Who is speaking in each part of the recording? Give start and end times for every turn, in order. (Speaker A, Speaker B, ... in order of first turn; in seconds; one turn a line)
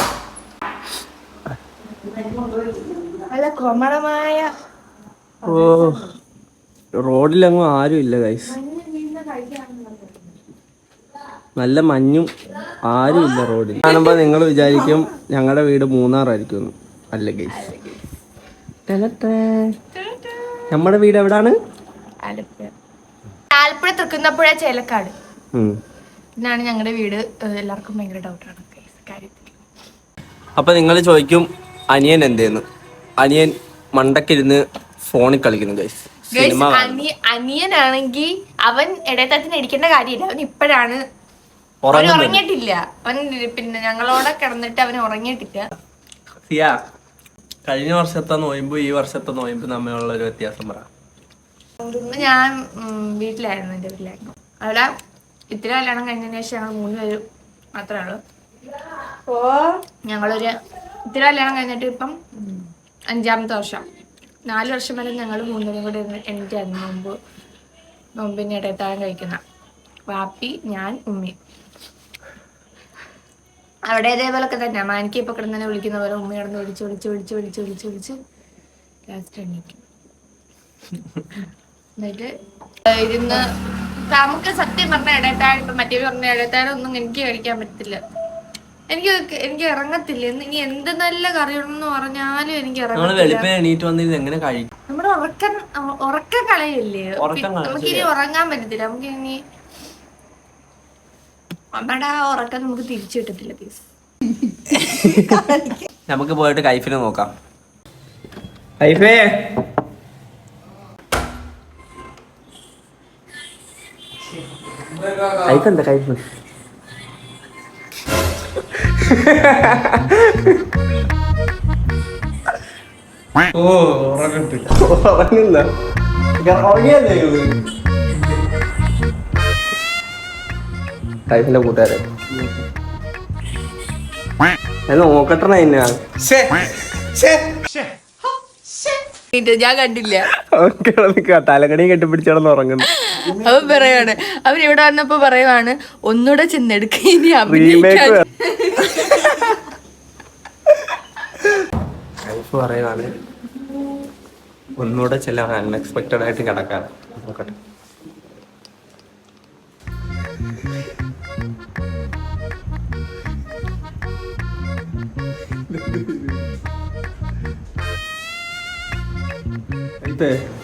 Speaker A: 2.1-4.5
Speaker A: 5.4-6.1
Speaker B: 5.4-6.0
Speaker B: 6.9-8.5
Speaker A: 8.4-10.4
Speaker B: 11.6-17.7
Speaker A: 14.7-15.0
Speaker A: 17.5-18.0
Speaker B: 18.9-19.7
Speaker A: 19.9-20.6
Speaker B: 20.7-21.6
Speaker A: 22.2-22.7
Speaker A: 23.5-25.1
Speaker A: 26.4-29.6
Speaker B: 30.6-32.6
Speaker B: 33.2-37.0
Speaker A: 36.3-41.0
Speaker B: 41.8-42.4
Speaker A: 41.9-45.7
Speaker B: 46.5-46.8
Speaker B: 47.7-50.9
Speaker A: 51.8-54.9
Speaker A: 55.5-57.2
Speaker A: 57.8-58.2
Speaker A: 60.0-60.5
Speaker A: 61.1-62.6
Speaker A: 63.1-63.8
Speaker A: 64.5-67.1
Speaker A: 68.2-69.4
Speaker A: 70.1-71.3
Speaker A: 73.8-78.1
Speaker A: 79.1-79.8
Speaker A: 82.0-82.3
Speaker A: 82.8-83.5
Speaker A: 84.1-88.0
Speaker A: 88.9-93.5
Speaker B: 92.9-94.7
Speaker A: 94.9-99.4
Speaker B: 97.2-98.1
Speaker A: 101.7-103.8
Speaker B: 104.9-105.6
Speaker B: 106.1-107.3
Speaker B: 108.8-109.3
Speaker B: 115.3-116.2
Speaker B: 118.7-120.6
Speaker B: 123.5-125.7
Speaker B: 126.4-127.6
Speaker B: 131.3-132.6
Speaker B: 134.9-137.6
Speaker A: 139.3-140.3
Speaker B: 140.3-142.9
Speaker A: 142.8-149.3
Speaker B: 147.5-148.2
Speaker B: 149.2-149.5
Speaker B: 152.2-153.1
Speaker B: 154.8-157.5
Speaker B: 165.7-166.4
Speaker B: 170.0-170.3